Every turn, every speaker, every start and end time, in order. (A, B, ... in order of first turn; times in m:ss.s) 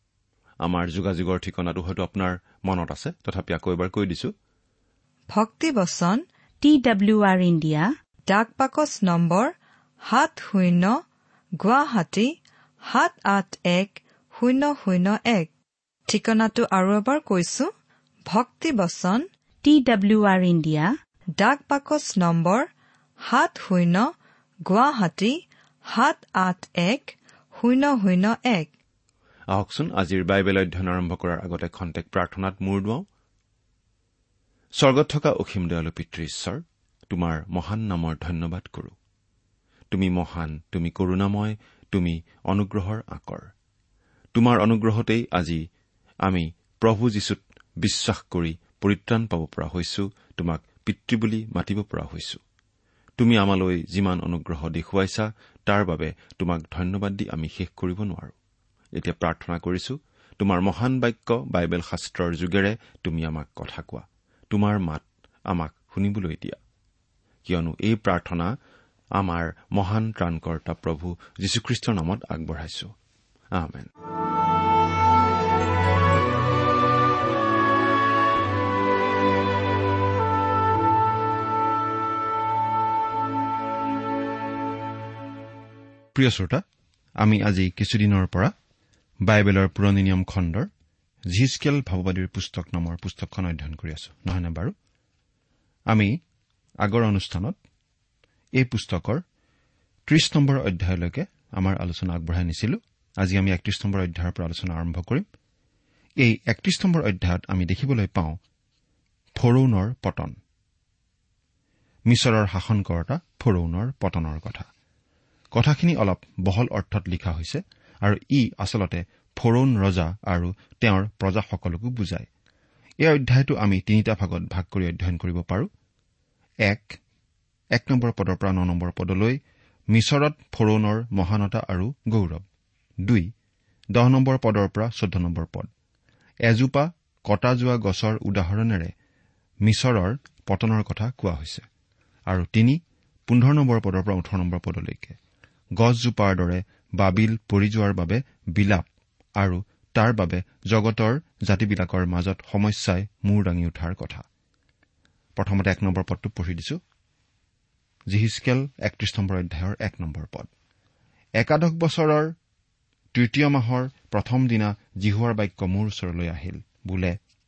0:00.6-0:04.3 A
0:05.3-0:06.2 B
0:06.6-0:07.9 C
0:08.3-0:11.0 B
0:11.6-0:15.5 B
0:16.1-0:17.7 B
0:18.3-0:19.3 B
0:19.6-0:20.9 C
0:21.4-0:22.7 B
0:23.2-0:24.1 B
0:24.7-0:28.7 B
0:29.5-0:33.0 A
0:34.8-0:39.0 A
0:39.9-0:43.5 A
0:44.3-0:45.6 A
0:46.2-0:52.4 A
0:53.2-0:58.3 A
0:59.0-1:06.6 A
1:07.4-1:08.5 A
1:09.2-1:12.9 A
1:13.5-1:13.9 A
1:26.1-1:26.6 A
1:27.2-1:28.5 A
1:29.3-1:30.7 A
1:31.3-1:34.7 A
1:35.9-1:36.2 A
1:36.8-1:37.6 A
1:38.6-1:39.2 A
1:40.1-1:45.2 A
1:46.2-1:48.4 A
1:49.4-1:50.4 A
1:52.1-1:54.7 A
1:55.5-2:02.3 A
2:03.0-2:05.7 A
2:06.7-2:07.0 A
2:07.8-2:09.4 A
2:09.9-2:12.4 A
2:14.0-2:15.7 A
2:16.5-2:18.9 A
2:19.6-2:21.6 A
2:22.3-2:25.2 A
2:25.8-2:28.9 A
2:29.4-2:34.2 A
2:35.4-2:36.8 A
2:38.1-2:40.5 A
2:41.4-2:42.3 A
2:43.1-2:47.2 A